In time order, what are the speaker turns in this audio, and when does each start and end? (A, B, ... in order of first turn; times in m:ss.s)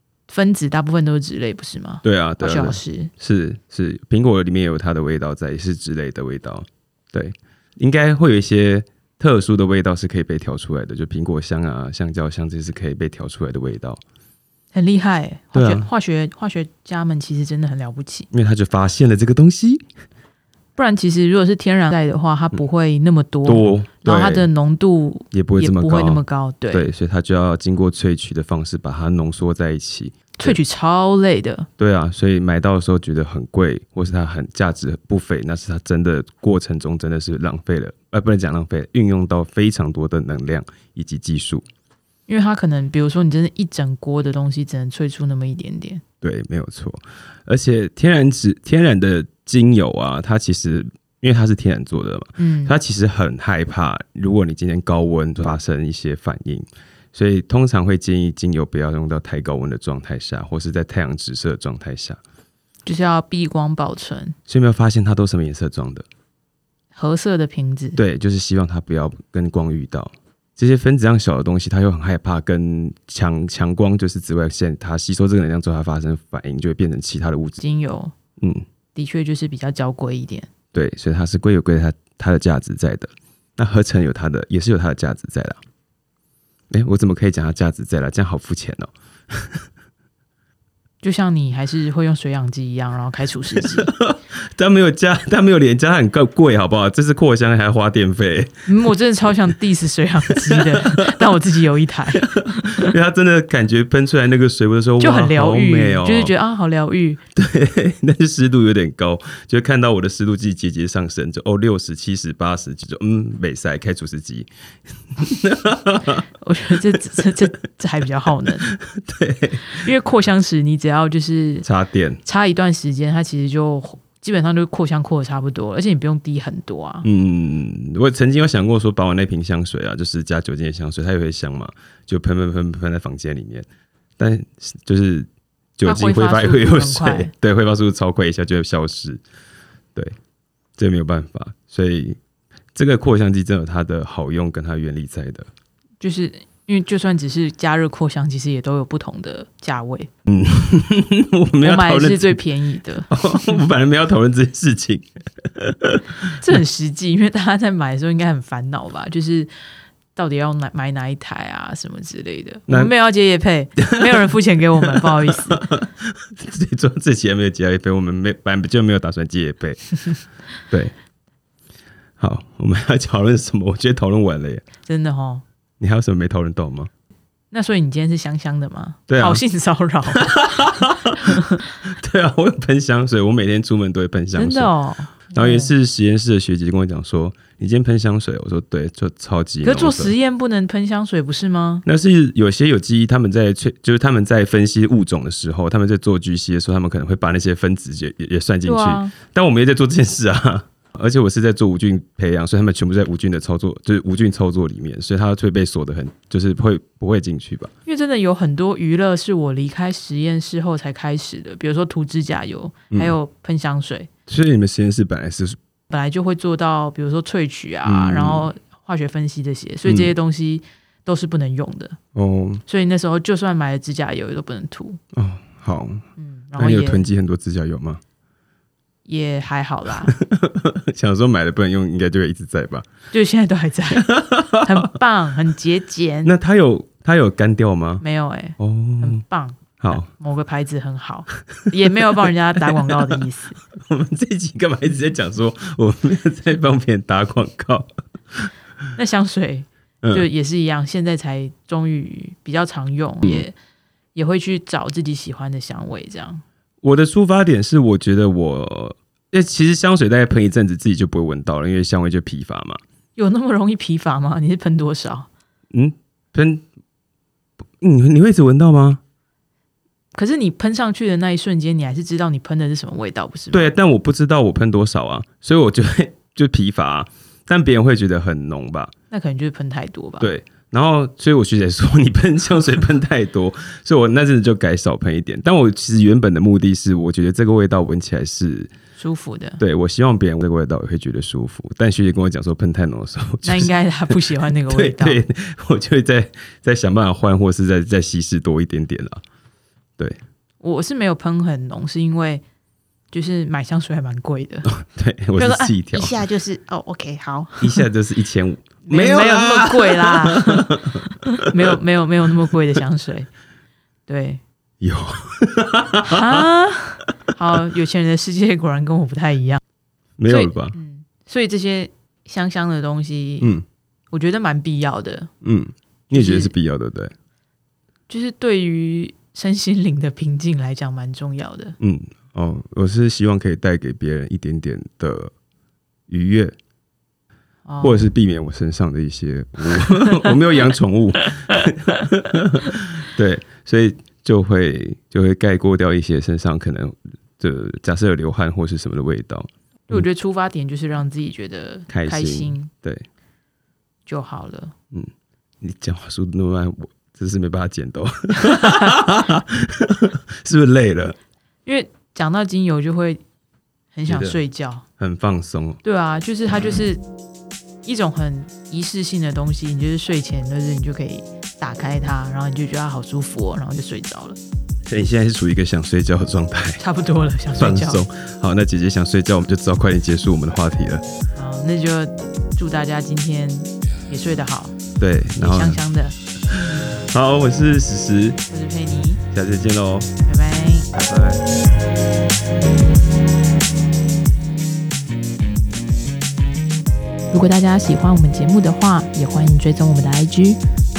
0:00.3-0:03.1 A
0:02.0-0:14.0 B
0:14.7-0:18.3 A
0:15.5-0:15.9 B
0:18.3-0:19.8 B
0:20.8-0:26.9 A
0:23.4-0:24.5 B
0:25.3-0:30.6 B
0:30.4-0:31.7 A
0:31.8-0:41.6 B
0:42.3-0:46.0 A
0:46.2-1:02.2 B
0:52.4-0:52.7 A
1:02.8-1:04.3 A
1:04.5-1:06.0 B
1:06.9-1:08.0 A
1:08.0-1:17.6 B
1:17.6-1:18.1 A
1:18.4-1:18.6 B
1:18.9-1:20.5 A
1:20.7-1:25.6 B
1:26.7-1:29.6 B
1:31.0-1:33.9 A
1:33.5-1:38.7 B
1:38.7-1:42.9 A
1:40.3-1:41.2 B
1:42.1-1:46.3 B
1:45.0-1:47.2 A
1:47.3-1:54.5 B
1:55.1-1:56.2 B
1:56.4-1:58.7 A
1:58.6-1:59.8 B
1:59.6-2:01.6 A
2:01.6-2:02.2 B
2:02.2-2:07.0 A
2:07.0-2:13.7 B
2:14.2-2:19.2 B
2:15.8-2:17.3 A
2:20.8-2:22.2 B
2:22.7-2:25.5 B
2:26.0-2:30.1 A
2:30.2-2:32.4 B
2:31.6-2:33.6 A
2:33.1-2:36.3 B
2:36.2-2:39.5 A
2:40.1-2:45.6 A
2:43.8-2:49.9 B
2:52.2-2:54.6 B
2:54.8-2:55.4 A
2:55.8-2:56.9 B
2:57.5-3:01.6 A
2:59.1-2:59.4 B
3:00.1-3:04.7 B
3:04.4-3:05.7 A
3:05.3-3:10.1 B
3:09.6-3:11.8 A
3:11.8-3:27.7 B
3:18.6-3:19.1 A
3:27.8-3:34.1 A
3:32.9-3:33.2 B
3:34.3-3:35.6 B
3:35.9-3:42.0 A
3:37.8-3:38.5 B
3:39.8-3:40.1 B
3:42.1-3:42.6 B
3:42.7-3:45.0 A
3:45.1-3:46.0 B
3:46.2-3:47.1 A
3:46.6-3:48.0 B
3:49.0-3:50.1 A
3:50.1-3:52.9 B
3:53.1-3:56.3 A
3:53.9-3:54.9 B
3:56.2-3:58.0 B
3:58.0-4:03.6 A
3:58.6-3:59.2 B
3:59.8-4:00.0 B
4:02.0-4:03.2 B
4:03.7-4:08.5 B
4:09.0-4:13.5 A
4:14.1-4:16.4 A
4:16.8-4:22.8 B
4:23.2-4:25.3 A
4:25.7-4:26.6 B
4:27.8-4:29.0 B
4:30.1-4:33.7 A
4:33.5-4:38.9 B
4:39.1-4:40.3 A
4:40.2-4:48.7 B
4:49.0-4:49.6 A
4:49.6-4:59.2 B
4:53.4-4:55.2 A
5:00.6-5:02.4 A
5:03.1-5:04.7 A
5:04.6-5:06.2 B
5:05.4-5:07.9 A
5:07.6-5:11.7 B
5:08.9-5:13.3 A
5:14.1-5:14.4 A
5:14.8-5:16.4 B
5:16.0-5:19.6 A
5:20.2-5:20.8 B
5:20.3-5:23.6 A
5:24.1-5:25.3 A
5:25.4-5:27.1 B
5:26.1-5:26.5 A
5:28.1-5:31.8 A
5:31.8-5:35.3 B
5:36.1-5:36.5 B
5:37.6-5:38.1 A
5:37.8-5:50.0 B
5:39.8-5:40.3 A
5:49.9-5:52.7 A
5:51.9-5:53.0 B
5:54.0-5:54.7 A
5:54.9-6:01.2 B
5:58.4-5:58.9 A
6:01.6-6:03.2 A
6:03.9-6:04.8 A
6:04.1-6:04.4 B
6:05.0-6:05.8 B
6:05.8-6:07.0 A
6:07.8-6:14.4 A
6:14.9-6:16.8 B
6:16.8-6:18.0 A
6:17.6-6:21.0 B
6:21.4-6:24.8 A
6:25.0-6:25.8 B
6:25.4-6:26.2 A
6:26.5-6:28.4 B
6:28.5-6:29.2 A
6:29.3-6:30.1 B
6:30.2-6:30.9 A
6:30.9-6:31.4 B
6:37.3-6:40.6 A